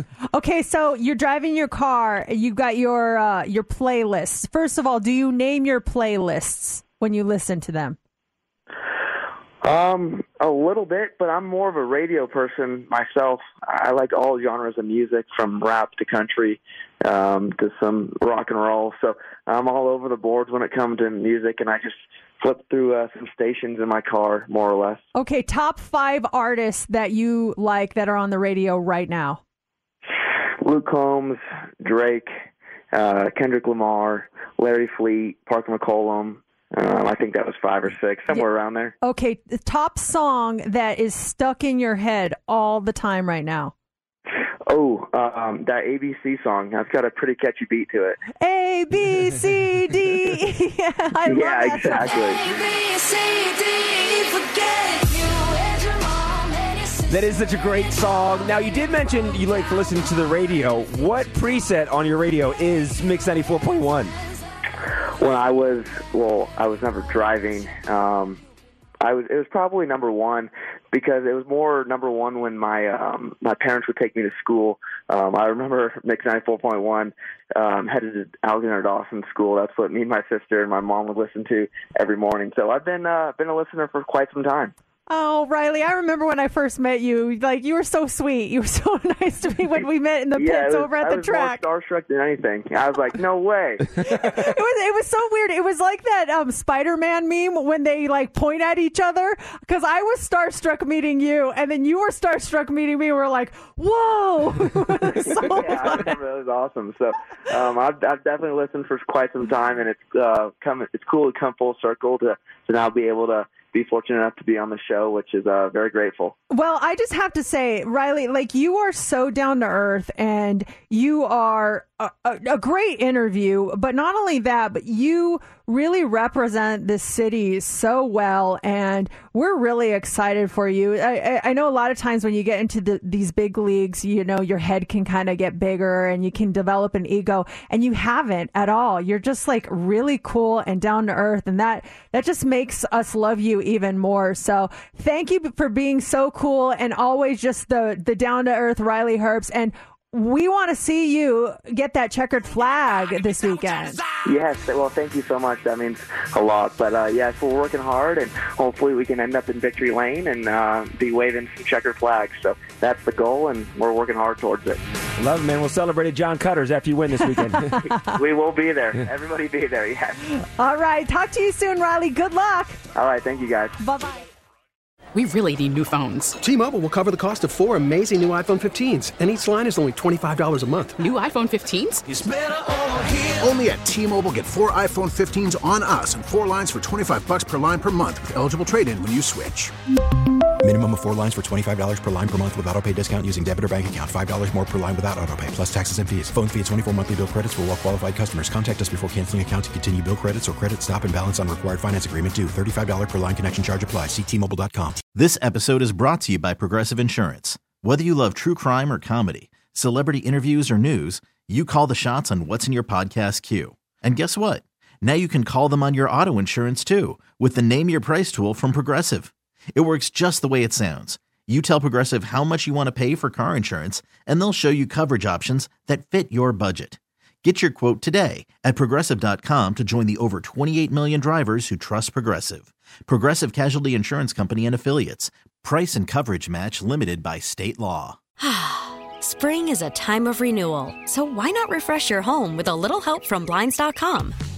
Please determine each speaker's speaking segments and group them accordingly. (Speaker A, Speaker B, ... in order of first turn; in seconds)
Speaker A: 0.3-8.0, 25.1-29.4, 39.0-43.7, 48.4-52.1, 85.1-91.6, 94.0-106.1, 116.5-154.0, 170.6-172.8, 173.8-174.3
Speaker B: 9.6-25.0, 30.6-32.3, 32.9-38.9, 44.6-48.2, 51.2-52.5, 65.2-68.4, 69.0-84.7, 90.4-93.8, 105.5-116.3, 154.2-164.8, 167.9-170.3, 172.9-173.8
Speaker C: 57.0-64.1, 165.2-167.7
Speaker D: 175.1-176.3, 181.0-182.0
Speaker E: 176.4-181.0
Speaker F: 183.4-189.7
Speaker G: 190.6-205.0
Speaker H: 205.1-238.2
Speaker I: 238.4-244.4